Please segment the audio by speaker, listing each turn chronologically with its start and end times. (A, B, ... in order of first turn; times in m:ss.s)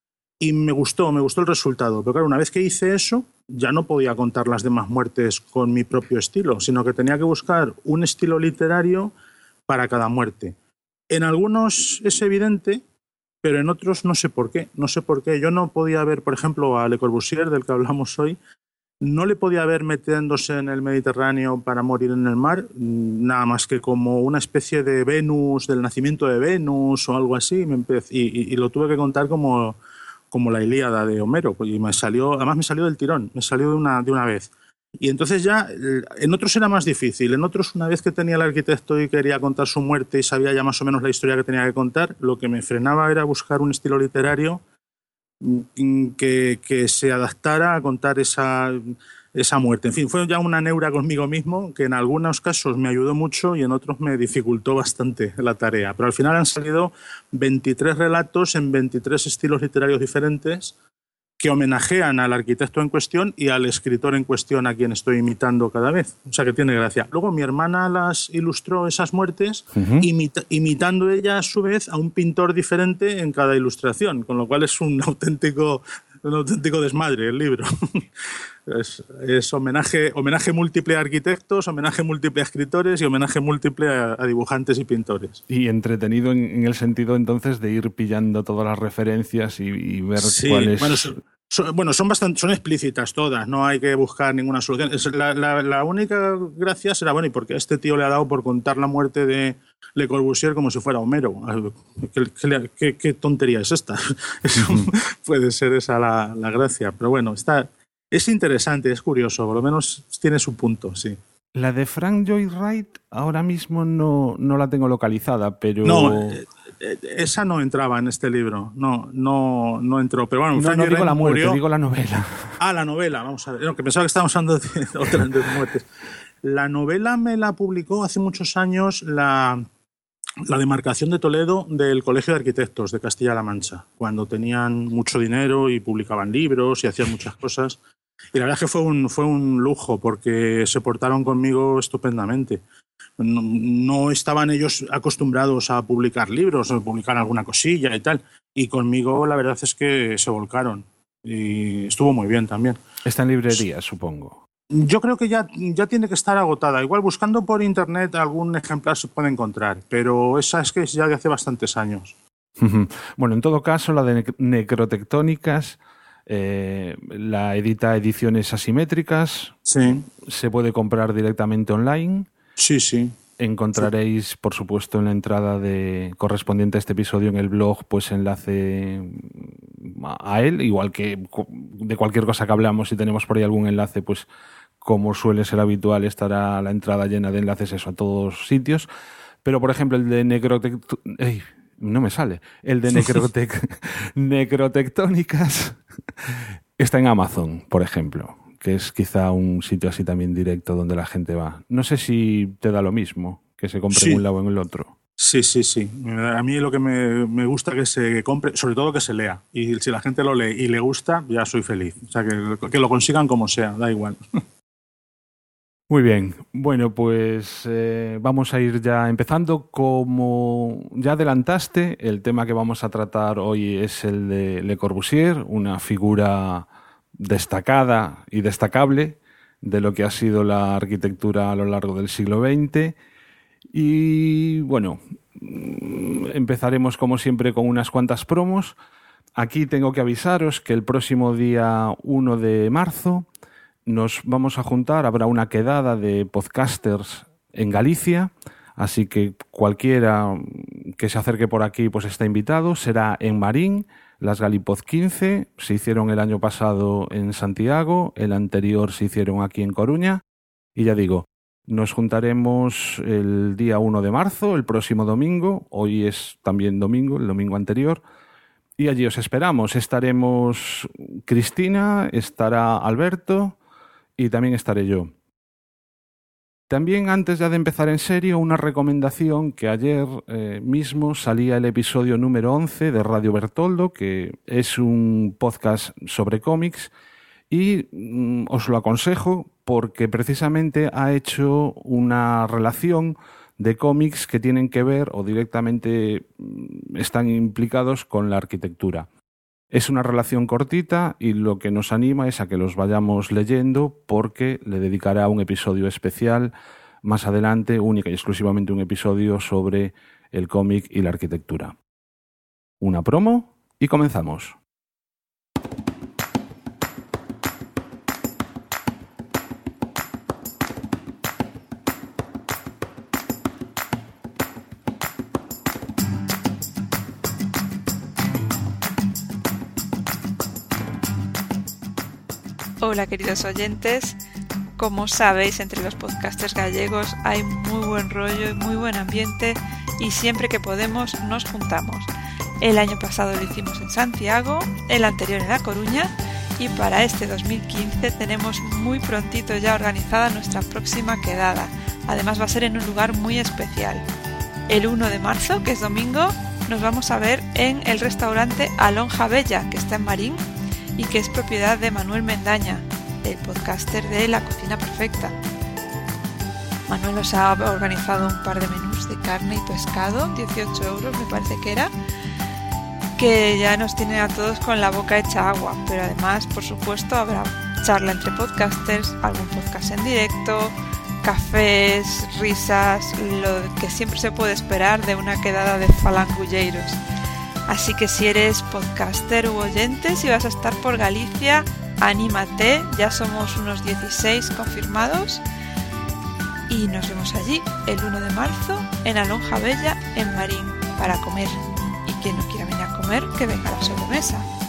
0:00.4-0:09.1 A
0:09.7-0:10.6 A
0:11.1-0:12.8 A
0:13.4-0:18.4 A
0:19.0-0:29.8 A
0:30.3-0:44.6 A
0:45.4-1:00.7 A
1:01.4-1:18.1 A
1:09.8-1:10.1 B
1:18.7-1:25.4 A
1:25.5-1:31.2 B
1:30.2-1:51.2 A
1:44.6-1:44.9 B
1:51.6-1:56.4 B
1:55.8-2:01.6 A
2:00.5-2:02.6 B
2:02.6-2:05.8 A
2:06.4-2:09.7 A
2:10.5-2:17.8 A
2:18.3-2:22.6 A
2:23.2-2:32.8 A
2:33.1-2:34.4 B
2:34.7-2:42.1 A
2:42.6-2:49.6 B
2:49.7-2:50.1 A
2:50.3-2:52.3 B
2:52.6-2:53.2 A
2:53.4-3:04.3 B
3:04.8-3:08.9 B
3:09.4-3:24.9 B
3:23.9-3:24.2 A
3:25.2-3:34.2 A
3:35.9-3:46.7 B
3:47.2-3:53.0 B
3:53.7-3:58.8 B
3:59.4-4:03.3 B
4:03.9-4:20.2 B
4:20.8-4:28.0 B
4:28.8-4:33.6 B
4:34.2-4:35.1 B
4:36.7-4:46.9 B
4:47.5-4:59.1 B
4:59.7-5:06.5 B
5:07.0-5:11.8 B
5:12.8-5:14.6 B
5:32.8-5:34.2 C
5:34.8-5:42.1 C
5:42.6-5:54.0 C
5:54.7-6:00.4 C
6:01.0-6:05.4 C
6:06.9-6:11.9 C
6:13.2-6:27.0 C
6:27.7-6:35.4 C
6:36.7-6:44.4 C